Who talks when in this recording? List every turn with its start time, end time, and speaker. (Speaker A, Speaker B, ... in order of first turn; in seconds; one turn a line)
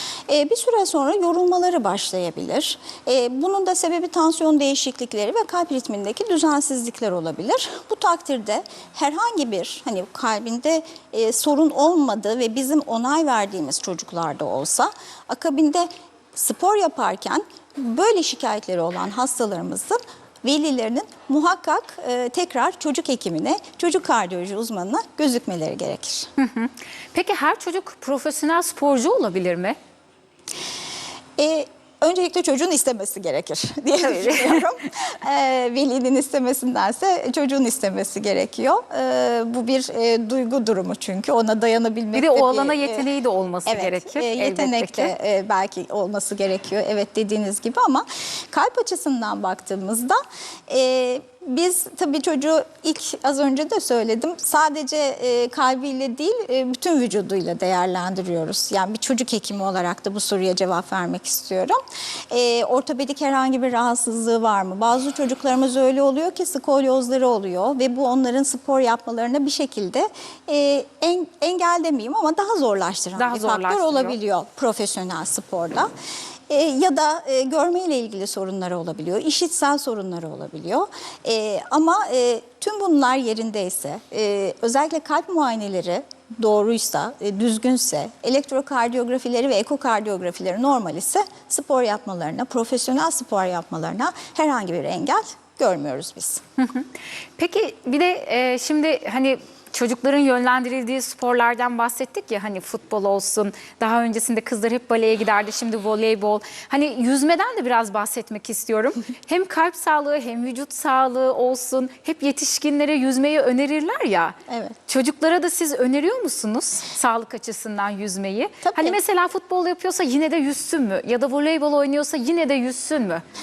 Speaker A: 0.3-26.3
Speaker B: 26.4-29.8
Speaker A: 31.4-43.1
Speaker B: 34.0-34.6
Speaker B: 42.1-45.1
Speaker A: 43.6-61.8
Speaker A: 62.3-75.9
Speaker B: 73.2-74.2
Speaker A: 76.5-96.4
Speaker B: 96.6-114.4
Speaker A: 114.5-114.8
Speaker B: 114.9-123.2
Speaker A: 118.6-119.0